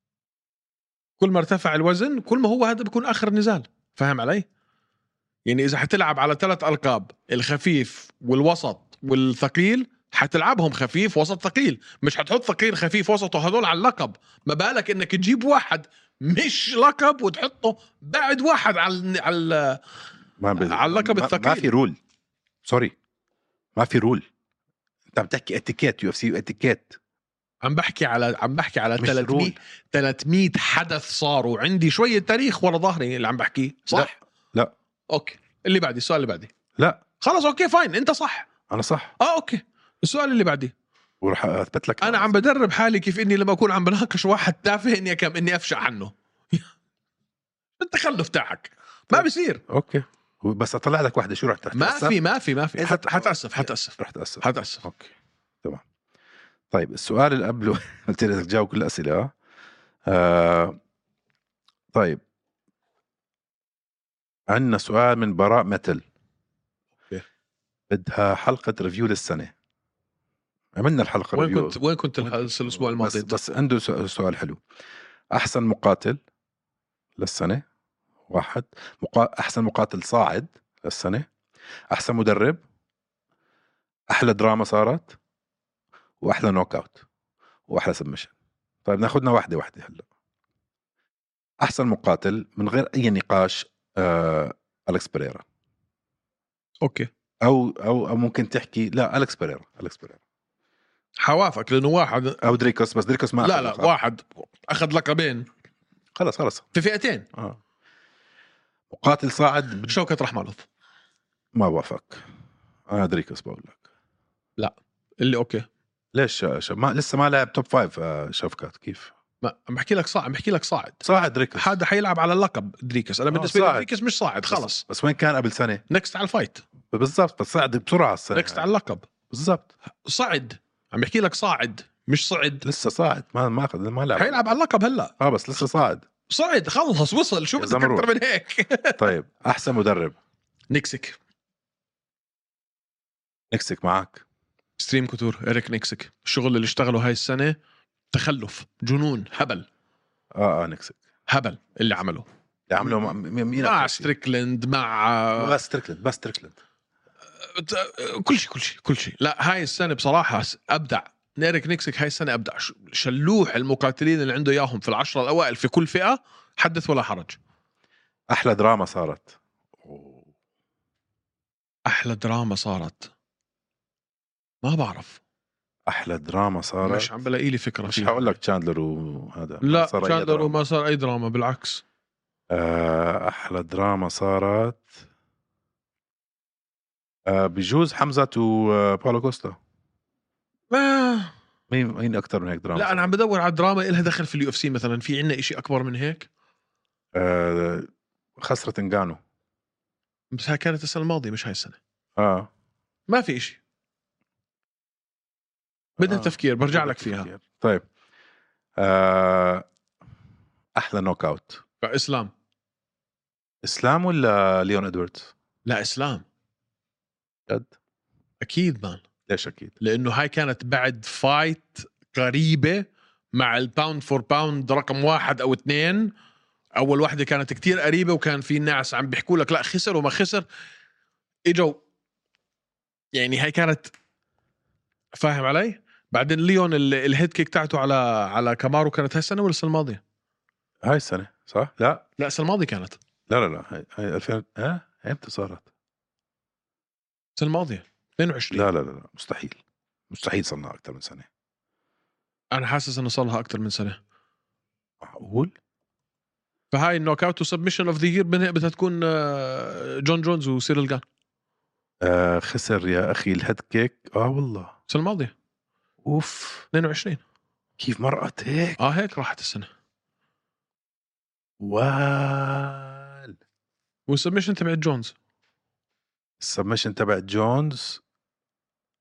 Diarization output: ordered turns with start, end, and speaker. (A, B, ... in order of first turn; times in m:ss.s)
0:01.2-0:04.5 A
0:05.4-0:19.8 A
0:20.4-0:22.0 B
0:20.6-0:21.7 A
0:22.6-0:23.0 B
0:23.8-0:24.2 B
0:25.1-0:27.0 B
0:27.6-0:34.2 A
0:29.0-0:29.6 B
0:33.9-0:34.7 B
0:35.1-0:36.5 A
0:37.2-0:38.5 A
0:38.7-0:39.1 B
0:39.2-0:40.7 A
0:41.2-0:42.3 B
0:42.0-0:46.7 A
0:47.8-0:49.6 A
0:49.1-0:52.2 B
0:51.7-0:54.8 A
0:52.8-0:55.1 B
0:56.7-0:59.3 B
1:00.1-1:00.8 B
1:01.9-1:02.2 B
1:04.5-1:06.0 B
1:07.9-1:09.5 B
1:10.8-1:14.6 B
1:11.3-1:13.4 A
1:15.3-1:16.2 B
1:17.2-1:17.6 B
1:18.3-1:21.3 B
1:21.9-1:22.6 B
1:24.1-1:25.2 B
1:26.2-1:27.0 B
1:27.7-1:28.3 B
1:28.8-1:30.0 B
1:31.6-1:35.4 B
1:36.8-1:37.1 A
1:37.4-1:40.2 B
1:41.2-1:42.4 A
1:42.4-1:43.9 B
1:43.4-1:45.5 A
1:46.2-1:46.7 B
1:46.7-1:47.3 A
1:47.3-1:47.6 B
1:48.9-1:50.0 B
1:49.9-1:50.7 A
1:51.6-1:52.2 B
1:52.9-1:53.8 B
1:54.6-1:55.7 A
1:56.1-1:59.1 B
1:59.4-2:01.0 A
2:01.0-2:01.8 B
2:01.6-2:04.8 A
2:03.3-2:03.9 B
2:04.5-2:05.8 B
2:05.9-2:06.6 A
2:06.9-2:08.7 B
2:08.3-2:09.1 A
2:09.3-2:09.7 B
2:10.0-2:12.6 A
2:12.6-2:14.5 B
2:14.2-2:15.1 A
2:15.2-2:16.0 B
2:16.3-2:19.1 A
2:17.6-2:18.1 B
2:19.0-2:20.2 B
2:20.7-2:21.2 A
2:23.5-2:24.2 B
2:24.8-2:27.6 A
2:28.1-2:29.7 A
2:30.4-2:31.0 B
2:31.3-2:32.3 A
2:32.7-2:34.1 B
2:33.6-2:35.5 A
2:35.4-2:36.6 B
2:37.4-2:47.4 A
2:48.3-2:50.3 B
2:51.9-2:53.1 A
2:54.6-2:55.2 A
2:55.9-2:57.1 B
2:56.8-2:58.4 A
2:57.9-3:00.6 B
2:59.6-3:01.8 A
3:02.5-3:05.0 B
3:07.3-3:09.6 B
3:10.7-3:11.3 A
3:11.7-3:13.1 B
3:12.8-3:16.3 A
3:17.2-3:19.2 B
3:20.3-3:21.8 A
3:22.2-3:22.5 B
3:23.1-3:23.6 A
3:26.0-3:27.3 A
3:26.0-3:27.8 B
3:28.8-3:29.6 B
3:30.8-3:31.6 B
3:31.8-3:32.3 A
3:33.6-3:35.3 B
3:35.6-3:36.2 A
3:37.5-3:37.7 B
3:38.4-3:39.0 A
3:39.3-3:39.8 B
3:39.8-3:46.1 A
3:46.8-3:50.4 A
3:51.5-3:51.8 A
3:53.1-3:53.9 A
3:55.1-4:00.0 A
4:00.8-4:02.0 B
4:02.2-4:03.0 A
4:03.3-4:05.7 B
4:07.4-4:08.7 A
4:08.5-4:09.6 B
4:10.1-4:11.3 B
4:12.5-4:14.0 A
4:15.0-4:15.5 B
4:16.7-4:21.0 A
4:22.0-4:24.7 B
4:24.9-4:25.3 A
4:26.0-4:26.7 B
4:26.7-4:27.2 A
4:27.8-4:28.8 B
4:28.8-4:29.7 A
4:31.6-4:33.3 B
4:34.1-4:35.1 A
4:36.4-4:38.0 B